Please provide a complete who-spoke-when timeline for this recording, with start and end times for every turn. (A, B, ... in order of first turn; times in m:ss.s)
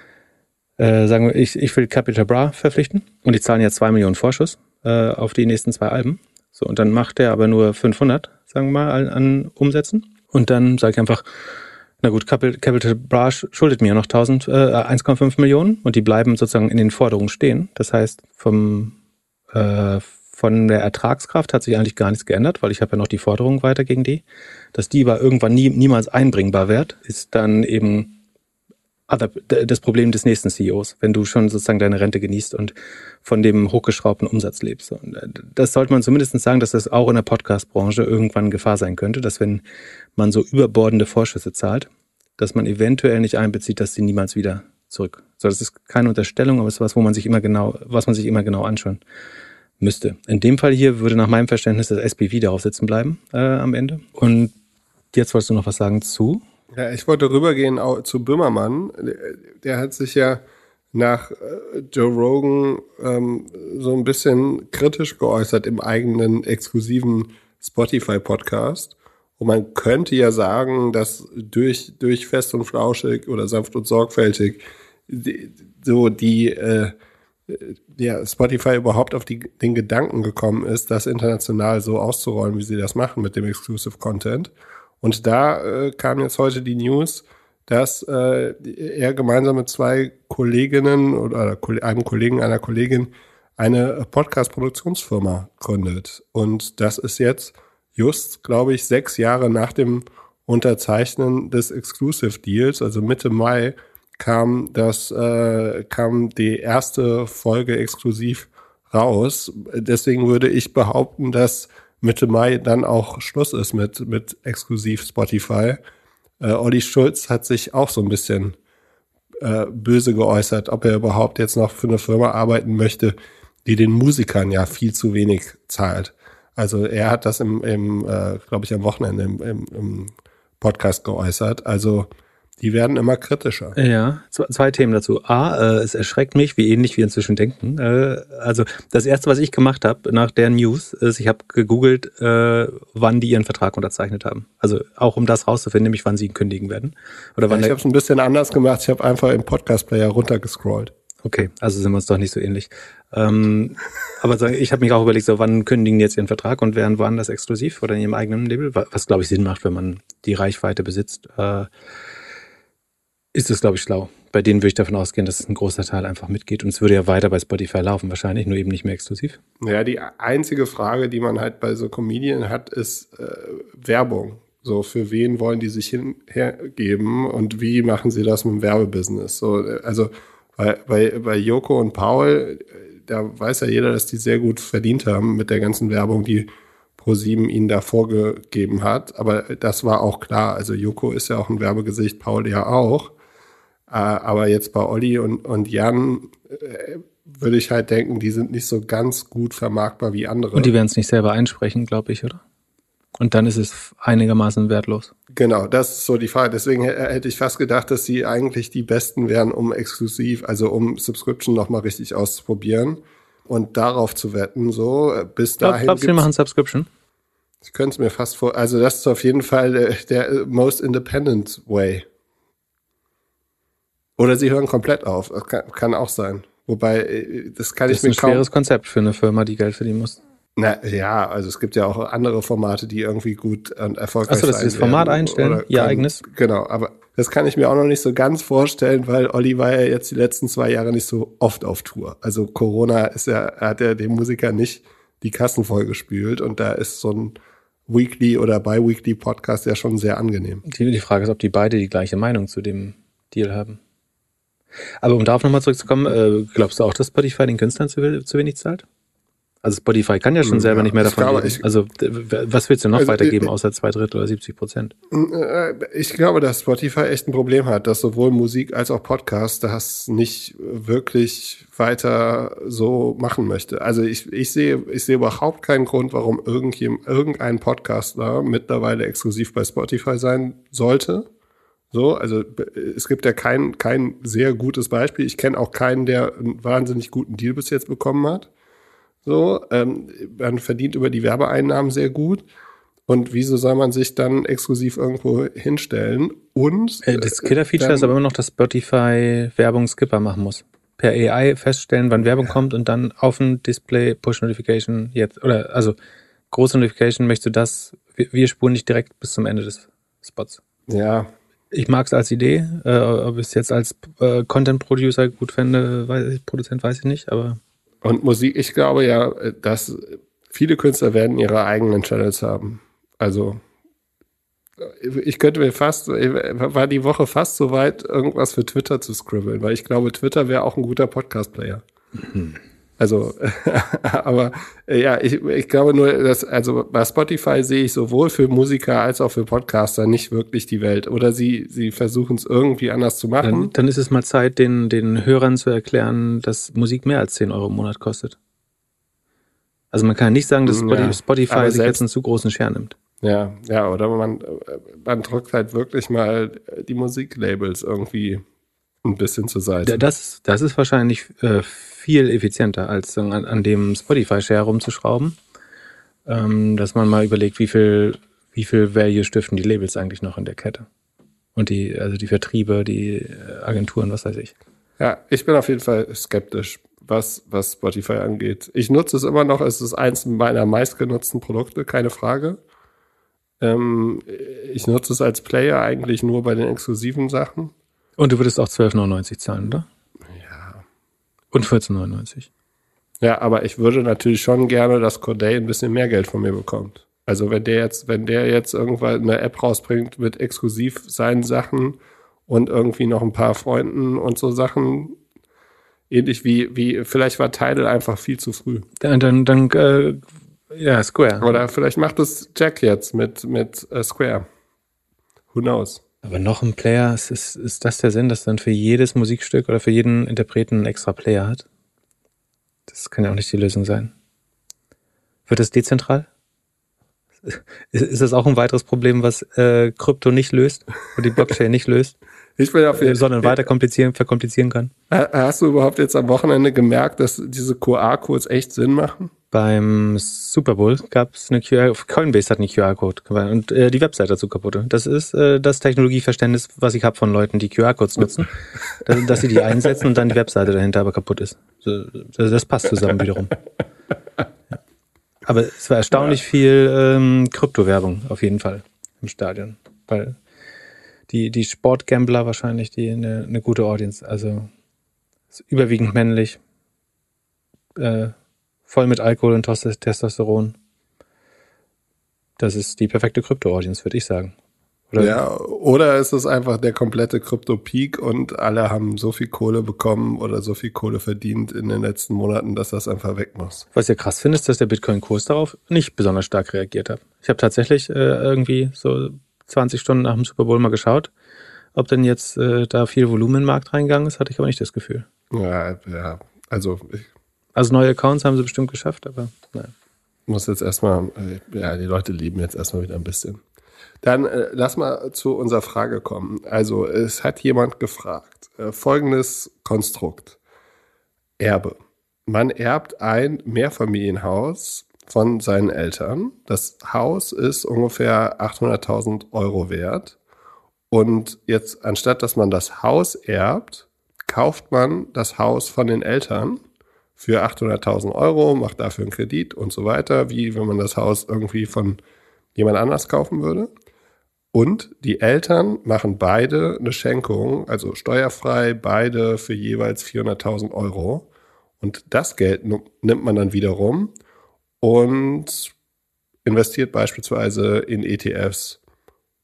0:00.8-0:11.2 A
0:12.0-0:19.0 A
0:19.5-0:28.2 A
0:29.1-0:39.6 A
0:40.2-0:49.0 A
0:49.8-0:54.5 A
0:55.1-0:56.4 A
0:56.7-1:17.0 B
1:17.5-1:55.8 B
1:56.4-1:58.6 B
1:59.4-2:13.8 B
2:13.8-2:27.8 A
2:27.5-2:30.9 B
2:31.2-2:41.7 A
2:43.3-2:49.4 A
2:49.6-3:13.1 B
3:13.9-3:20.8 B
3:20.6-3:22.4 A
3:23.2-3:25.1 A
3:25.3-3:36.3 B
3:35.6-3:36.9 A
3:37.6-3:42.1 B
3:44.2-3:48.5 B
3:47.9-3:50.2 A
3:50.6-4:10.6 B
3:54.3-3:56.2 A
4:10.7-4:13.8 A
4:15.0-4:18.8 A
4:19.6-4:24.9 A
4:20.4-4:21.7 B
4:23.0-4:23.5 B
4:25.1-4:41.3 B
4:41.9-4:48.5 B
4:49.2-4:52.4 B
4:53.1-4:58.1 B
4:57.0-5:06.0 A
5:06.5-5:10.6 A
5:10.9-5:11.3 B
5:11.7-5:17.6 A
5:18.0-5:23.6 B
5:24.8-5:31.8 B
5:33.0-5:43.7 B
5:43.4-5:48.4 A
5:49.9-5:53.0 A
5:50.7-5:52.0 B
5:53.2-5:58.4 B
5:59.0-6:00.0 B
5:59.8-6:05.4 A
6:06.3-6:10.9 A
6:11.6-6:14.5 A
6:15.0-6:22.6 B
6:23.6-6:27.7 B
6:28.2-6:29.9 A
6:30.3-6:30.8 B
6:31.5-6:32.5 A
6:33.2-6:45.2 B
6:46.1-6:48.9 B
6:49.0-6:51.6 A
6:51.4-6:54.5 B
6:55.5-6:56.0 B
6:56.2-7:01.6 A
7:02.9-7:04.1 A
7:05.5-7:06.3 A
7:07.4-7:12.2 A
7:12.6-7:13.7 B
7:12.9-7:14.9 A
7:15.1-7:19.3 B
7:19.5-7:33.6 A
7:35.5-7:40.4 A
7:41.3-7:44.7 A
7:45.6-7:46.6 A
7:48.0-7:48.3 A
7:48.9-7:50.8 A
7:52.6-7:54.5 A
7:55.1-7:55.4 A
7:55.2-8:03.9 B
8:04.0-8:11.3 A
8:12.0-8:15.3 A
8:15.5-8:17.3 B
8:17.7-8:19.9 A
8:20.5-8:23.6 B
8:24.2-8:30.6 B
8:31.6-8:40.4 B
8:41.1-8:46.8 B
8:47.4-8:52.2 B
8:52.8-8:53.9 B
8:54.7-9:01.5 B
9:02.0-9:04.3 B
9:05.0-9:05.9 B
9:06.6-9:09.0 B